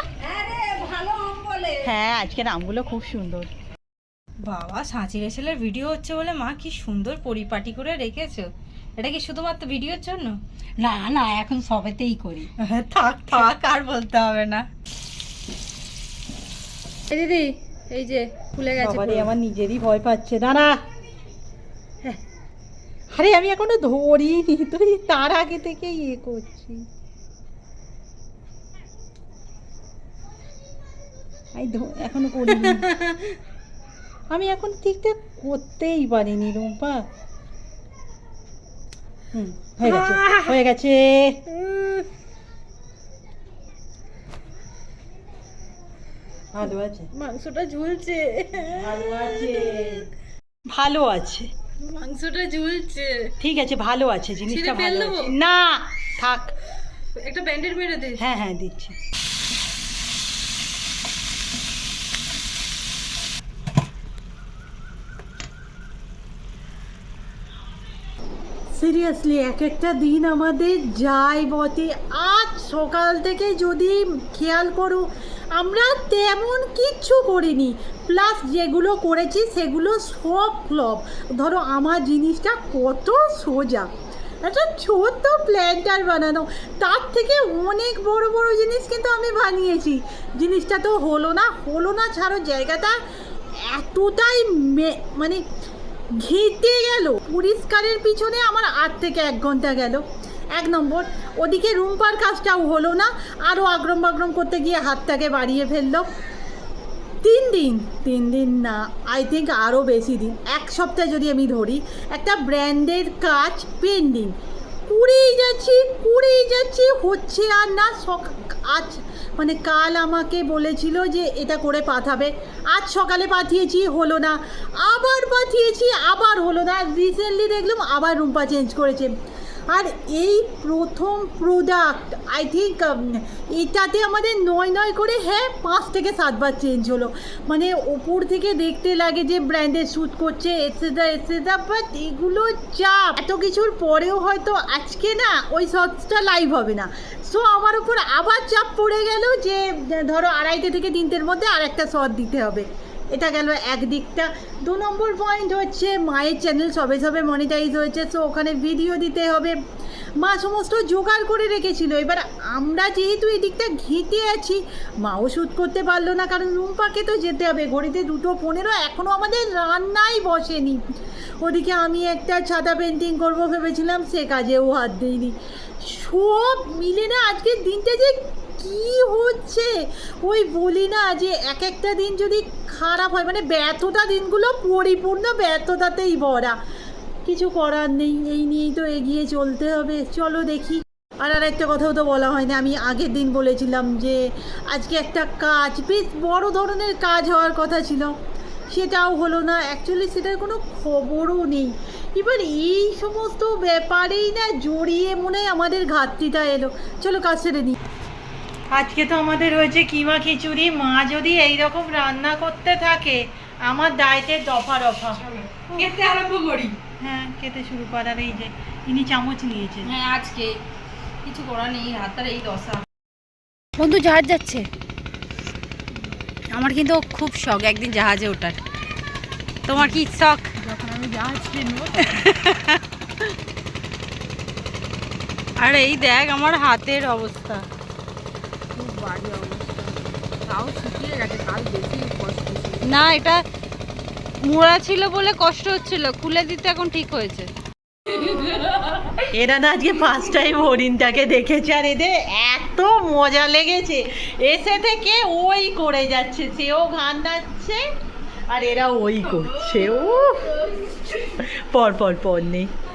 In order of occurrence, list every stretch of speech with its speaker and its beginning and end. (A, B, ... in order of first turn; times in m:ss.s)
0:00.2-0:01.9 A
0:01.8-0:03.5 B
0:04.4-0:14.6 A
0:17.1-0:19.3 A
0:18.8-0:20.8 B
0:23.2-0:26.8 B
0:31.5-0:32.9 B
0:32.6-0:33.3 A
0:34.3-0:37.1 B
0:39.3-0:41.4 B
0:39.8-0:40.6 A
0:41.5-0:42.0 A
0:46.5-0:47.1 B
0:47.1-0:49.5 A
0:48.6-0:50.1 B
0:50.7-0:51.5 B
0:51.8-0:53.3 A
0:53.4-0:56.5 B
0:54.4-0:55.3 A
0:57.1-0:58.2 A
0:58.2-0:59.0 B
1:08.7-1:23.9 B
1:24.4-1:33.0 B
1:33.6-1:35.4 B
1:36.1-1:46.0 B
1:47.2-1:54.3 B
1:54.9-2:09.1 B
2:09.7-2:39.6 B
2:40.2-2:50.8 B
2:51.4-3:06.6 B
3:07.2-3:18.1 B
3:18.7-3:27.8 B
3:28.7-3:35.2 B
3:35.2-3:36.8 A
3:37.0-3:39.9 B
3:39.8-3:40.6 A
3:41.2-3:42.8 A
3:43.8-3:44.7 A
3:46.5-3:48.6 A
3:49.6-3:50.6 A
3:50.6-3:52.0 C
3:51.9-3:52.8 A
3:55.6-3:57.6 A
3:58.8-4:02.8 C
3:58.9-4:00.0 A
4:02.8-4:03.4 A
4:04.4-4:07.5 A
4:08.2-4:08.6 A
4:09.2-4:17.8 B
4:18.5-4:22.7 B